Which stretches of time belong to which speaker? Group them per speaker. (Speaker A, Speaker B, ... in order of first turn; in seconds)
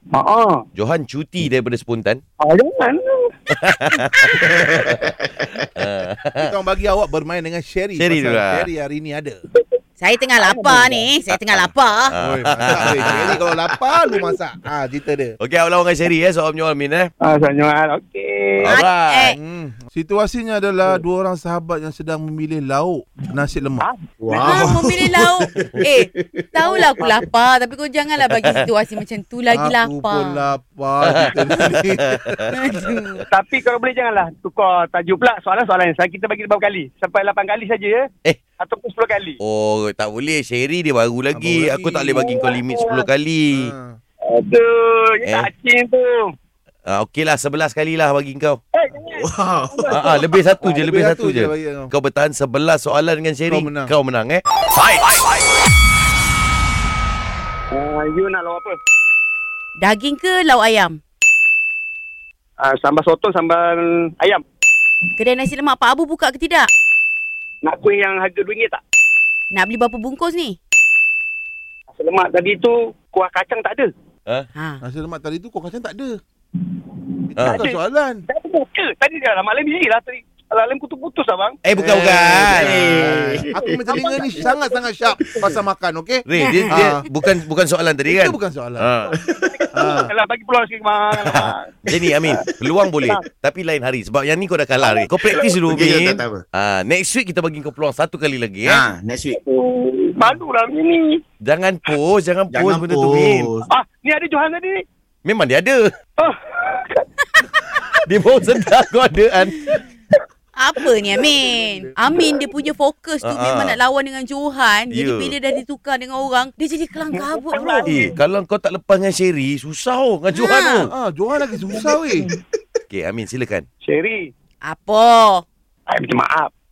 Speaker A: 0.1-0.6, 2.4-3.3, 10.4-11.1, 17.2-18.8, 23.8-24.8, 26.6-27.2, 33.3-38.1, 38.6-39.4, 42.2-43.0, 44.3-46.3, 48.7-50.1, 55.1-55.4, 57.7-58.8, 62.6-64.4, 67.6-68.8, 71.9-73.9, 77.4-81.5, 83.5-85.6, 89.1-92.4, 99.3-101.2, 103.7-104.8, 106.2-107.0, 112.2-112.5, 117.1-118.1, 123.8-124.3, 125.9-126.5
Speaker B: 0.8-2.2, 3.5-5.1, 5.6-6.5, 8.0-8.7, 11.3-13.4, 15.4-17.1, 18.6-19.4, 28.2-28.7, 31.1-33.2, 39.4-43.7, 46.9-48.6, 49.9-55.0, 77.4-77.6, 81.6-83.1, 86.3-89.1, 91.2-98.9, 101.4-103.5, 105.2-105.8, 108.0-109.7, 113.2-113.8, 114.9-115.4, 117.8-120.9, 122.9-123.7
Speaker C: 4.4-5.7, 12.7-14.3, 24.2-27.3, 49.1-50.0, 82.5-84.5, 95.2-96.4, 98.6-99.4, 102.5-103.7
Speaker D: 6.4-9.4, 12.2-15.4, 19.3-23.9, 29.5-32.4, 41.3-42.3, 43.5-44.0, 50.6-51.9, 53.5-53.9, 74.8-76.2, 77.3-78.2, 81.8-87.0, 88.1-88.9, 89.7-90.1, 111.2-112.2, 120.9-122.3
Speaker E: 10.0-12.1, 18.6-19.4, 24.4-30.4, 32.5-33.2, 59.8-61.0, 65.2-66.7, 69.5-70.6, 74.5-74.8, 110.5-118.0, 120.3-120.9, 124.6-125.4